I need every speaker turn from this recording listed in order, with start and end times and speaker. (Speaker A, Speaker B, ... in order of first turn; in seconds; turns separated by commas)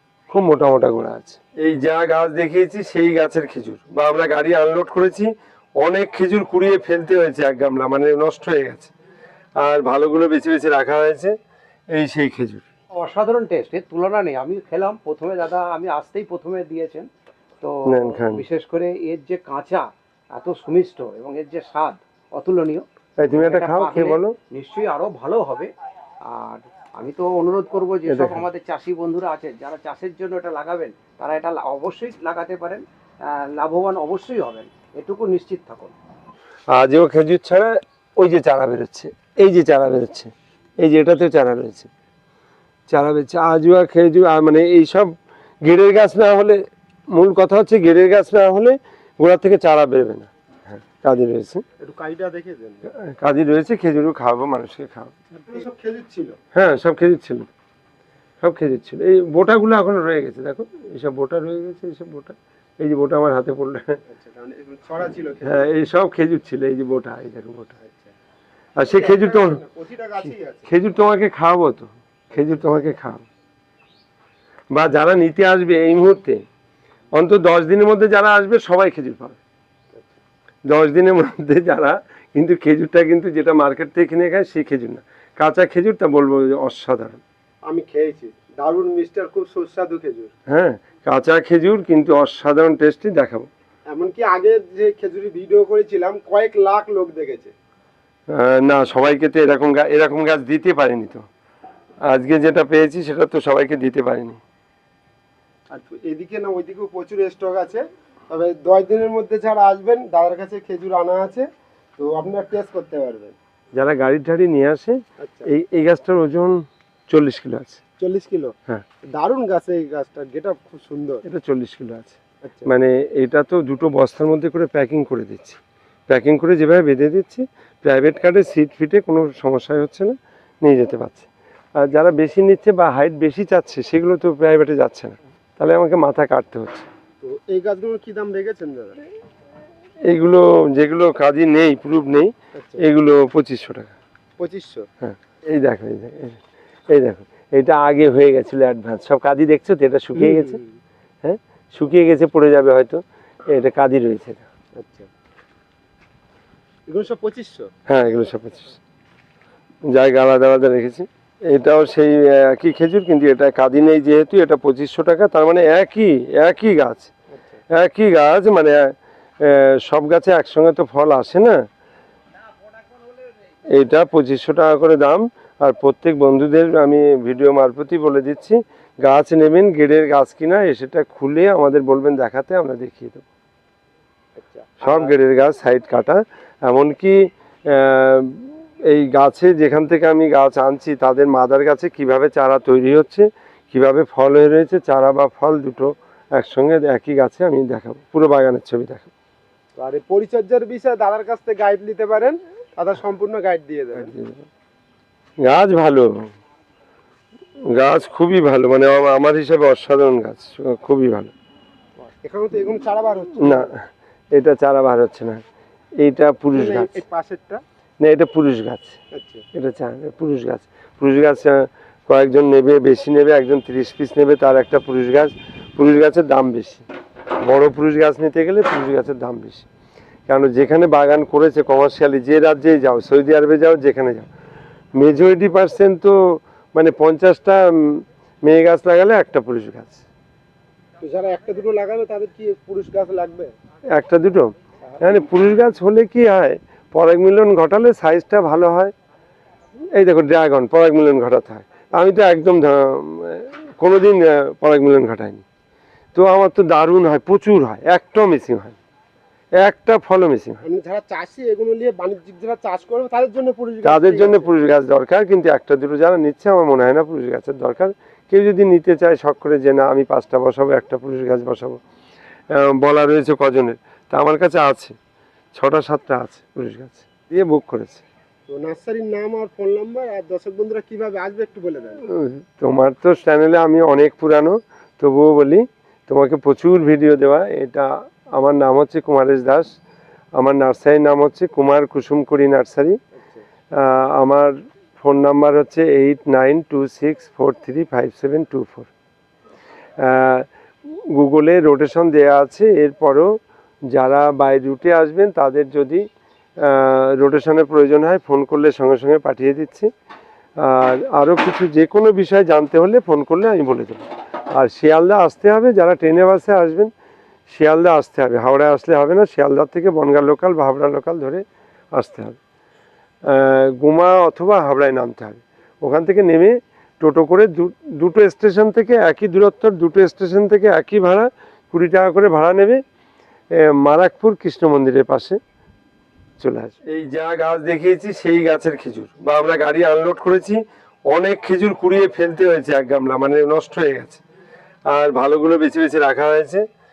Speaker A: 0.3-8.9, Speaker A: 9.6-11.3, Speaker A: 11.9-12.6, Speaker B: 12.9-17.1, Speaker B: 17.6-25.7, Speaker A: 17.9-18.4, Speaker A: 23.2-24.3, Speaker B: 26.3-35.9, Speaker A: 28.1-28.4, Speaker A: 36.7-41.9, Speaker A: 42.9-51.6, Speaker C: 51.8-52.9, Speaker A: 53.0-55.1, Speaker C: 55.5-56.4, Speaker A: 56.5-57.5, Speaker A: 58.4-64.0, Speaker C: 64.1-65.7, Speaker A: 65.5-67.8, Speaker C: 67.8-68.1, Speaker A: 68.8-69.6, Speaker C: 68.8-70.7, Speaker A: 70.7-73.3, Speaker A: 74.7-76.4, Speaker A: 77.1-79.4, Speaker A: 80.7-87.2, Speaker C: 87.7-90.3, Speaker A: 90.5-93.5, Speaker C: 93.9-97.5, Speaker A: 98.3-101.2, Speaker A: 102.1-104.4, Speaker C: 105.7-113.3, Speaker A: 113.7-117.8, Speaker C: 115.2-115.5, Speaker C: 118.0-118.5, Speaker C: 119.1-121.2, Speaker A: 121.2-136.9, Speaker C: 122.4-122.7, Speaker C: 137.2-139.0, Speaker A: 140.1-143.9, Speaker C: 142.5-142.8, Speaker C: 144.4-144.9, Speaker A: 145.0-150.6, Speaker C: 150.2-150.8, Speaker A: 151.2-154.5, Speaker C: 154.8-155.1, Speaker C: 156.9-157.7, Speaker A: 157.9-158.8, Speaker A: 159.9-167.1, Speaker A: 167.7-168.8, Speaker A: 169.4-171.5, Speaker A: 173.7-183.2, Speaker C: 184.4-185.1, Speaker A: 184.8-199.1, Speaker C: 199.8-204.1, Speaker A: 204.0-204.5, Speaker A: 205.4-206.2, Speaker A: 207.7-211.3, Speaker C: 212.1-213.7, Speaker A: 213.4-213.8, Speaker A: 214.3-215.4, Speaker A: 216.0-217.0, Speaker C: 216.5-217.6, Speaker A: 218.0-219.0, Speaker C: 219.1-219.4, Speaker A: 219.5-226.8, Speaker A: 227.4-229.7, Speaker A: 230.3-234.3, Speaker A: 234.9-236.2, Speaker A: 236.7-240.0, Speaker C: 241.0-243.5, Speaker A: 243.9-248.9, Speaker A: 249.9-255.4, Speaker A: 256.1-258.8, Speaker A: 259.6-260.6, Speaker C: 260.6-264.5, Speaker A: 263.8-271.8, Speaker A: 272.5-274.9, Speaker A: 275.5-278.0, Speaker C: 278.5-282.0, Speaker A: 282.1-289.7, Speaker A: 290.4-293.0, Speaker A: 293.8-298.9, Speaker A: 300.0-303.3, Speaker A: 303.9-306.0, Speaker A: 306.6-309.9, Speaker A: 310.6-316.9, Speaker A: 317.5-321.4, Speaker A: 321.9-322.4, Speaker A: 323.2-332.8, Speaker A: 333.6-335.4, Speaker A: 336.4-344.2, Speaker A: 344.9-346.6